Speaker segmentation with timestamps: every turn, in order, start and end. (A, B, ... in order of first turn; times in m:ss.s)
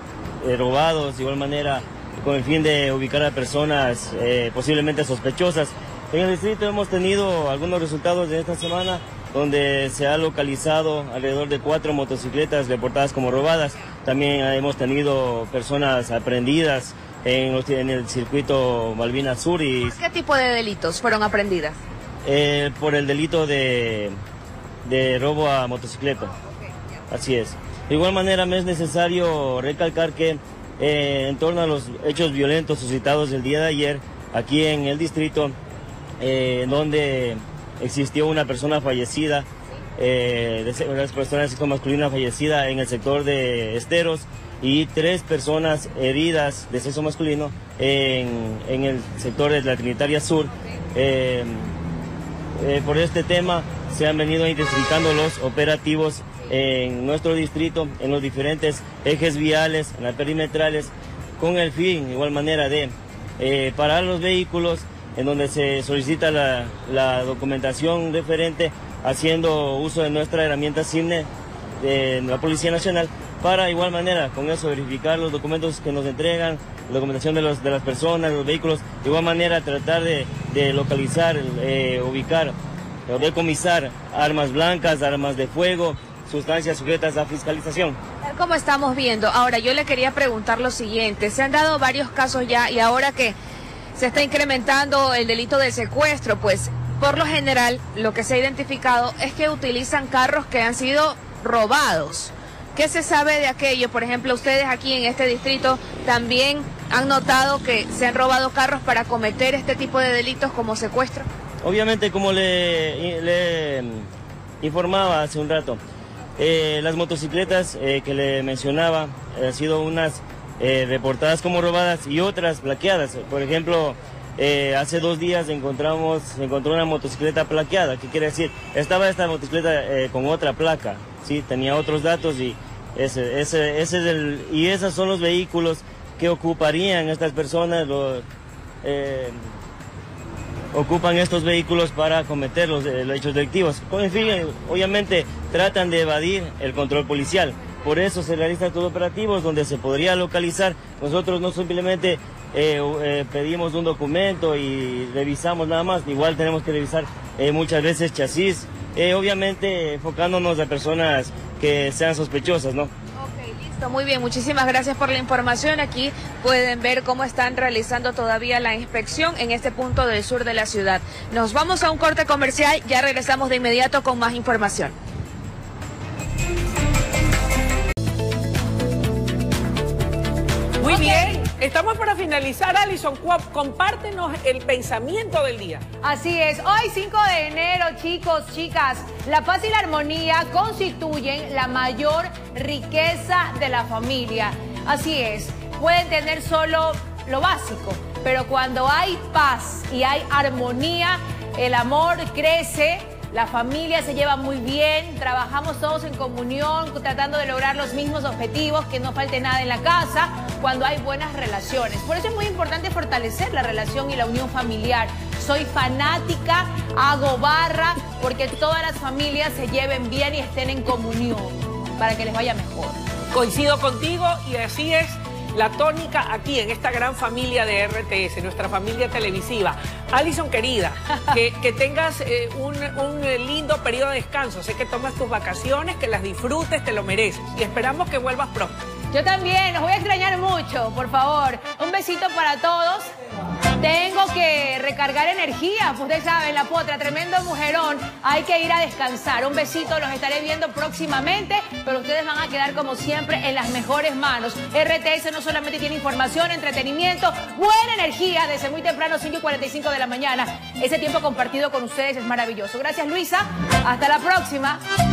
0:00.4-0:20.0 A
0:19.8-0:21.8 B
0:22.2-0:24.2 A
0:24.8-0:26.3 A
0:27.1-0:35.6 A
0:36.2-0:39.4 A
0:40.0-0:51.7 A
0:52.6-1:11.3 A
1:11.8-1:22.5 A
1:23.1-1:28.0 A
1:28.2-1:33.4 B
1:34.0-1:51.3 B
1:51.6-1:54.0 A
1:54.6-1:55.8 A
1:56.4-2:18.2 A
2:18.8-2:19.4 A
2:20.7-2:42.9 A
2:43.2-2:55.0 B
3:00.8-3:05.8 C
3:00.8-3:01.4 D
3:06.0-3:43.0 D
3:43.3-3:58.7 C
3:59.1-4:03.1 D
4:03.8-4:24.8 D